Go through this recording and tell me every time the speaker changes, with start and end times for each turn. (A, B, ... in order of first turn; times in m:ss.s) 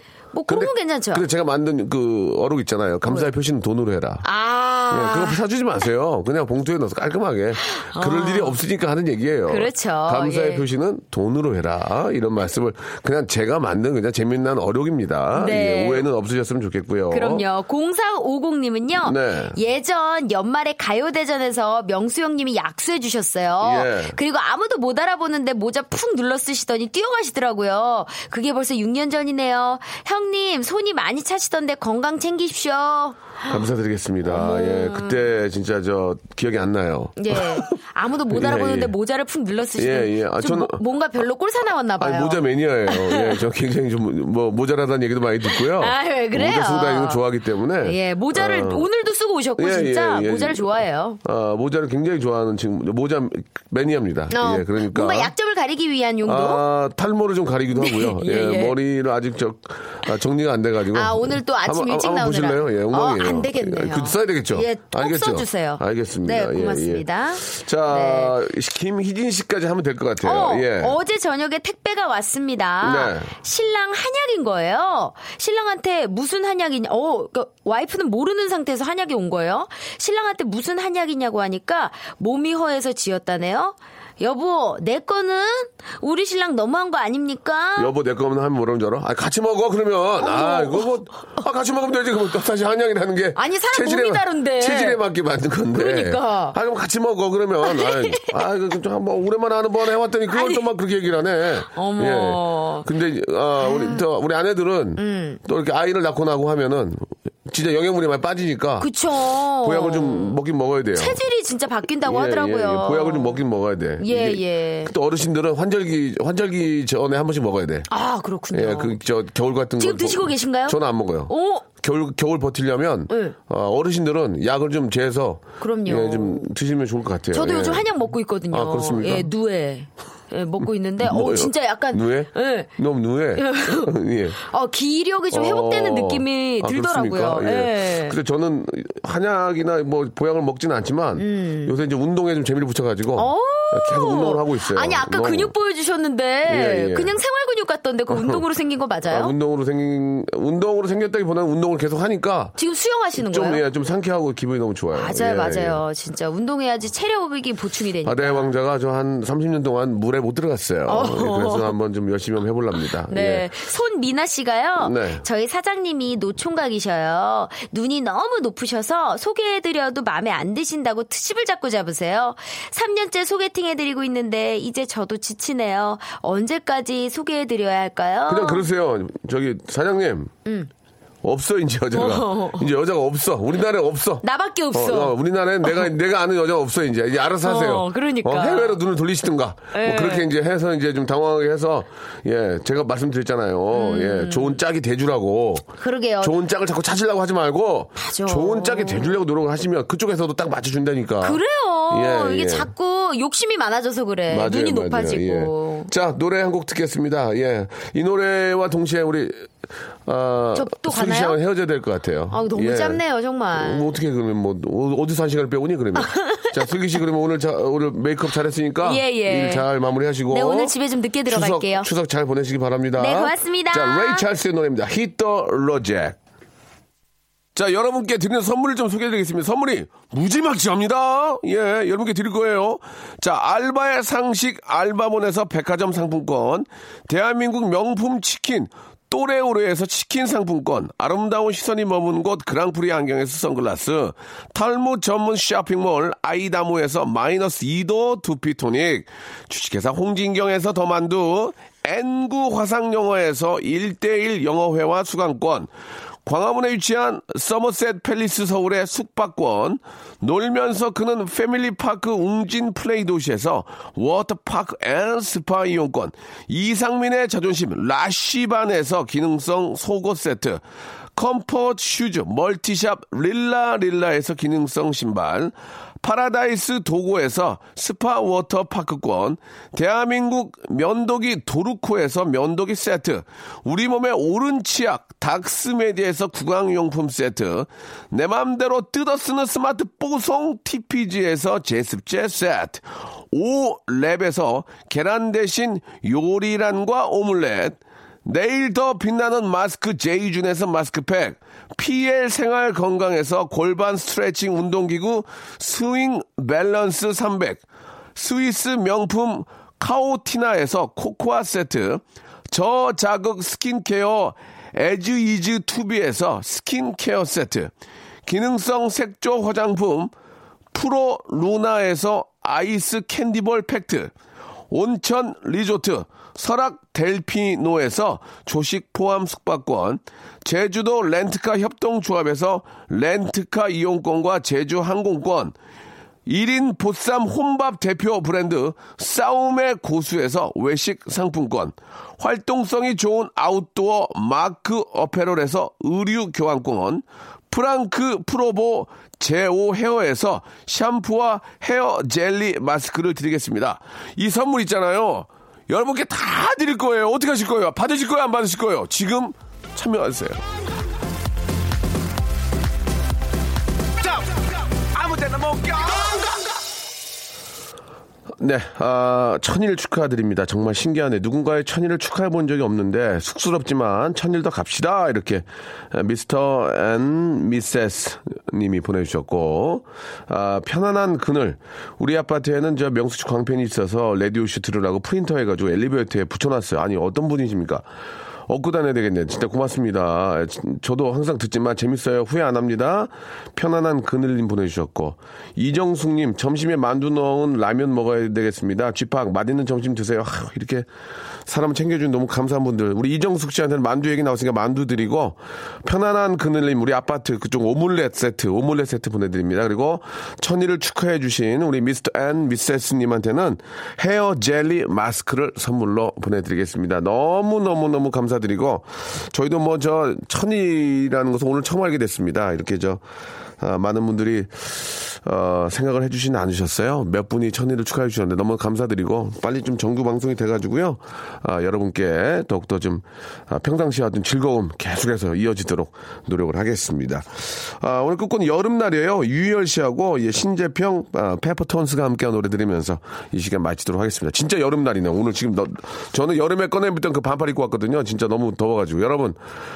0:00.3-0:01.2 A
0:00.5-0:04.2 B
0:04.2-0:05.4 A
0:04.9-0:17.4 B
0:07.6-0:08.6 A
0:09.5-0:10.6 A
0:15.3-0:16.1 A
0:17.1-0:33.6 A
0:19.0-0:19.6 B
0:23.6-0:24.2 B
0:33.5-0:37.8 B
0:34.2-0:35.2 A
0:37.2-0:43.4 A
0:38.3-0:38.9 B
0:39.8-0:40.8 B
0:42.0-0:48.9 B
0:45.5-0:47.2 A
0:47.8-0:51.2 A
0:49.6-0:55.3 B
0:54.3-0:56.6 A
0:56.2-1:11.0 B
0:57.7-0:58.8 A
1:00.9-1:08.4 A
1:10.2-1:27.9 A
1:12.8-1:13.3 B
1:27.8-1:48.9 B
1:30.2-1:30.9 A
1:33.4-1:35.0 A
1:35.7-1:36.6 A
1:37.6-1:38.3 A
1:40.3-1:40.7 A
1:41.7-1:42.9 A
1:43.6-1:44.0 A
1:45.0-1:45.4 A
1:48.8-1:50.4 A
1:49.5-1:51.2 B
1:50.9-1:53.4 A
1:52.0-1:57.9 B
1:54.0-1:54.9 A
1:57.9-1:59.0 A
1:58.5-2:07.9 B
1:59.8-2:01.6 A
2:03.1-2:03.4 A
2:05.6-2:06.5 A
2:07.3-2:12.7 A
2:08.5-2:09.3 B
2:11.0-2:14.4 B
2:13.4-2:18.2 A
2:15.3-2:25.5 B
2:21.2-2:21.7 A
2:23.1-2:29.3 A
2:26.4-2:27.2 B
2:28.1-2:28.4 B
2:29.1-2:32.6 B
2:32.6-2:33.6 A
2:33.2-2:35.8 B
2:34.9-2:38.5 A
2:38.0-2:43.5 B
2:40.9-2:41.8 A
2:43.1-2:58.6 A
2:44.8-2:45.2 B
2:58.3-3:00.3 B
3:01.2-3:15.7 B
3:01.9-3:02.7 A
3:04.2-3:05.9 A
3:07.4-3:08.8 A
3:09.7-3:10.3 A
3:13.7-3:14.6 A
3:15.8-3:16.4 A
3:16.2-3:22.7 B
3:18.0-3:19.2 A
3:21.2-3:25.9 A
3:24.3-3:29.5 B
3:30.0-3:33.0 B
3:30.5-3:31.4 A
3:32.3-3:33.9 A
3:33.5-3:40.7 B
3:36.0-3:36.5 A
3:38.8-3:39.7 A
3:40.3-3:41.9 A
3:41.3-3:46.2 B
3:43.0-3:44.2 A
3:47.5-4:15.7 B
4:16.2-4:30.6 B
4:31.2-5:07.6 B
5:08.2-5:17.7 B
5:18.2-5:20.1 B
5:20.7-5:24.1 B
5:24.7-5:35.5 B
5:36.2-6:00.4 B
6:04.9-6:06.2 B
6:08.4-6:27.8 B
6:28.5-6:40.9 B
6:41.5-7:03.0 B
7:03.6-7:29.4 B